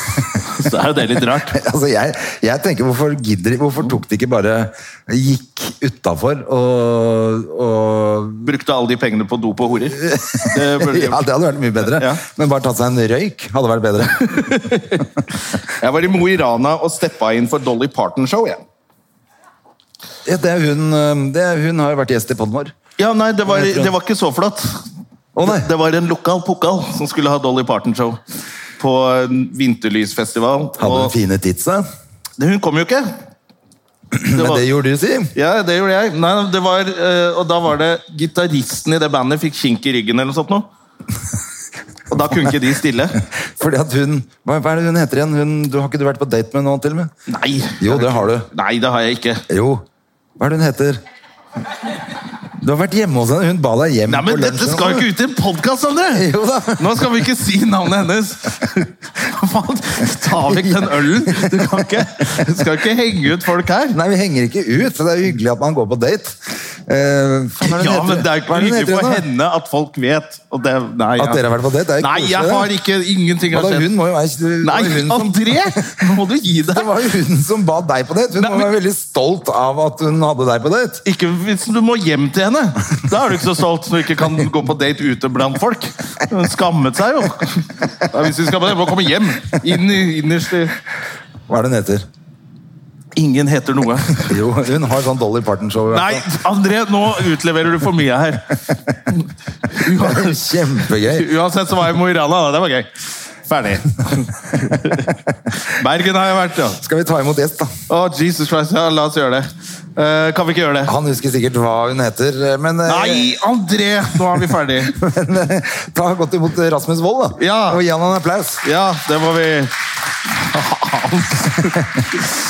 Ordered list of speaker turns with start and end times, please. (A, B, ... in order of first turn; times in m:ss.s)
0:00.2-0:01.6 A
0:01.5-0:08.5 B
0:08.4-0:11.2 A
0:09.9-0:14.6 B
0:11.9-0:12.2 A
0:14.2-0:15.0 A
0:15.7-0:18.6 A
0:20.2-0:22.7 B
0:23.0-0:24.8 A
0:23.5-0:23.9 B
0:25.3-0:25.7 B
0:25.4-0:28.2 A
0:28.8-0:31.1 A
0:30.8-0:31.8 B
0:32.4-0:33.1 A
0:34.1-0:35.3 B
0:34.3-0:34.6 A
0:35.3-0:40.6 A
0:42.1-0:43.2 A
0:43.5-0:47.1 B
0:47.3-0:49.4 A
0:47.8-0:48.5 B
0:49.5-0:49.8 B
0:50.4-0:51.0 B
0:52.6-0:55.1 B
0:54.1-1:04.0 A
0:56.1-0:57.0 B
1:00.4-1:02.1 B
1:03.9-1:09.2 B
1:07.6-1:11.4 A
1:11.2-1:12.7 B
1:12.0-1:13.9 A
1:13.5-1:15.8 B
1:14.6-1:16.9 A
1:16.7-1:21.0 B
1:18.4-1:18.7 A
1:21.0-1:30.8 A
1:31.5-1:32.0 B
1:33.2-1:34.3 A
1:34.2-1:36.2 B
1:35.9-1:42.9 A
1:39.8-1:41.3 B
1:43.4-1:46.8 A
1:46.7-1:47.8 B
1:47.9-1:50.9 A
1:50.8-1:53.3 B
1:52.8-1:54.9 A
1:54.9-1:58.6 B
1:57.4-1:57.8 A
1:58.6-1:59.7 A
2:00.3-2:01.8 A